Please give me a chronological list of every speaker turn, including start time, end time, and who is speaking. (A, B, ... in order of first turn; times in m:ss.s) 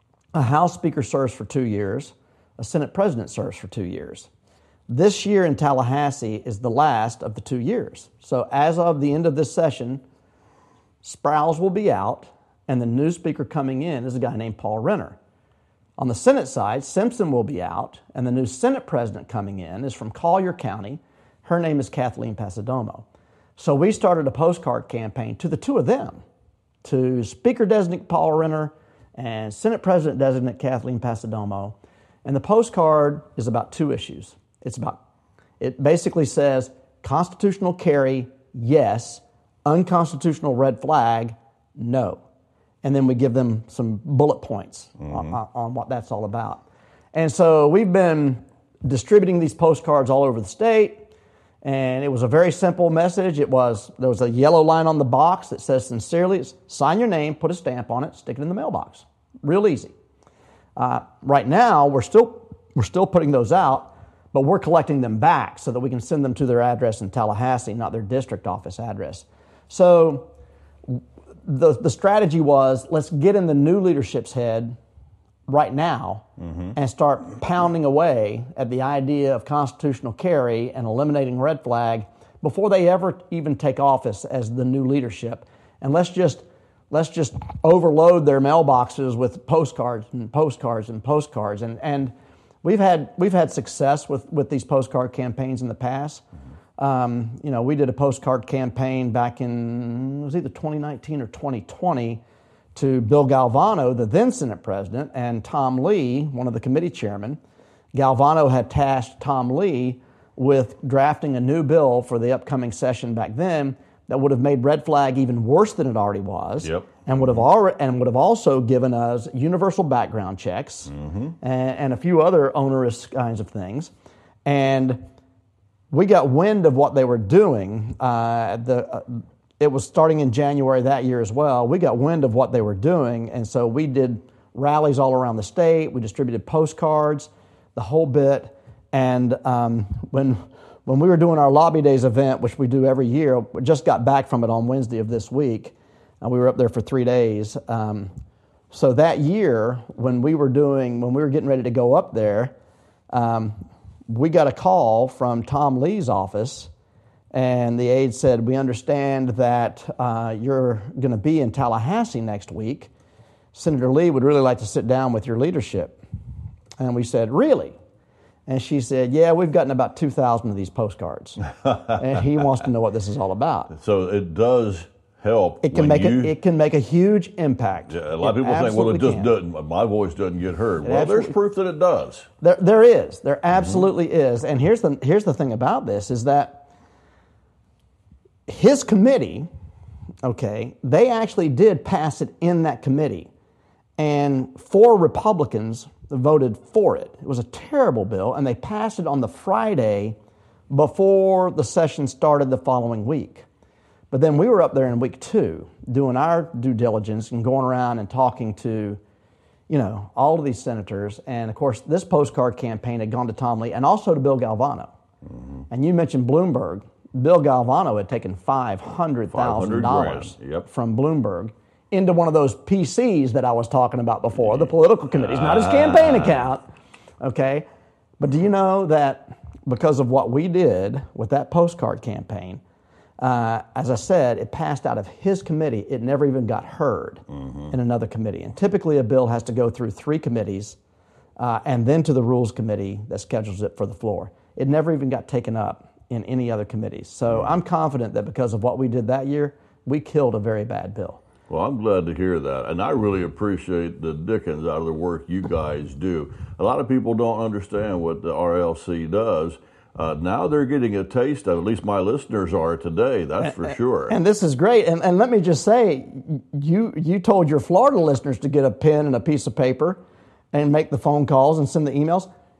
0:00.3-0:04.3 A
0:04.9-0:10.0 A
0:11.0-0:15.2 A
0:16.0-0:23.0 A
0:23.6-0:26.2 A
0:26.8-0:35.0 A
0:35.6-0:42.2 A
0:42.8-0:46.6 A
0:47.1-0:51.0 A
0:51.6-0:59.9 A
1:00.8-1:10.3 A
1:10.9-1:14.8 A
1:15.5-1:36.2 A
1:16.4-1:16.7 B
1:36.8-1:42.2 A
1:42.8-1:47.4 A
1:47.9-2:03.9 A
1:56.6-1:57.0 B
2:00.9-2:01.4 B
2:04.4-2:05.0 A
2:05.9-2:28.1 A
2:28.7-2:32.5 A
2:33.1-2:36.7 A
2:37.3-2:42.9 A
2:43.5-2:46.0 A
2:46.8-2:47.8 A
2:48.5-2:53.7 A
2:53.7-2:56.3 B
2:55.6-2:59.3 A
2:57.9-3:02.3 B
3:00.8-3:01.4 A
3:02.4-3:06.6 A
3:08.5-3:09.5 A
3:10.2-3:13.3 A
3:14.0-3:20.2 A
3:20.7-3:23.5 A
3:24.1-3:29.0 A
3:29.7-3:34.9 A
3:35.3-3:35.6 B
3:35.7-3:46.6 A
3:39.3-3:40.7 B
3:45.2-3:46.4 B
3:47.2-3:47.7 A
3:48.2-3:52.6 A
3:53.2-4:00.8 A
3:57.4-3:57.7 B
4:01.4-4:11.2 A
4:11.5-4:24.2 B
4:23.4-4:30.0 A
4:30.5-4:32.3 A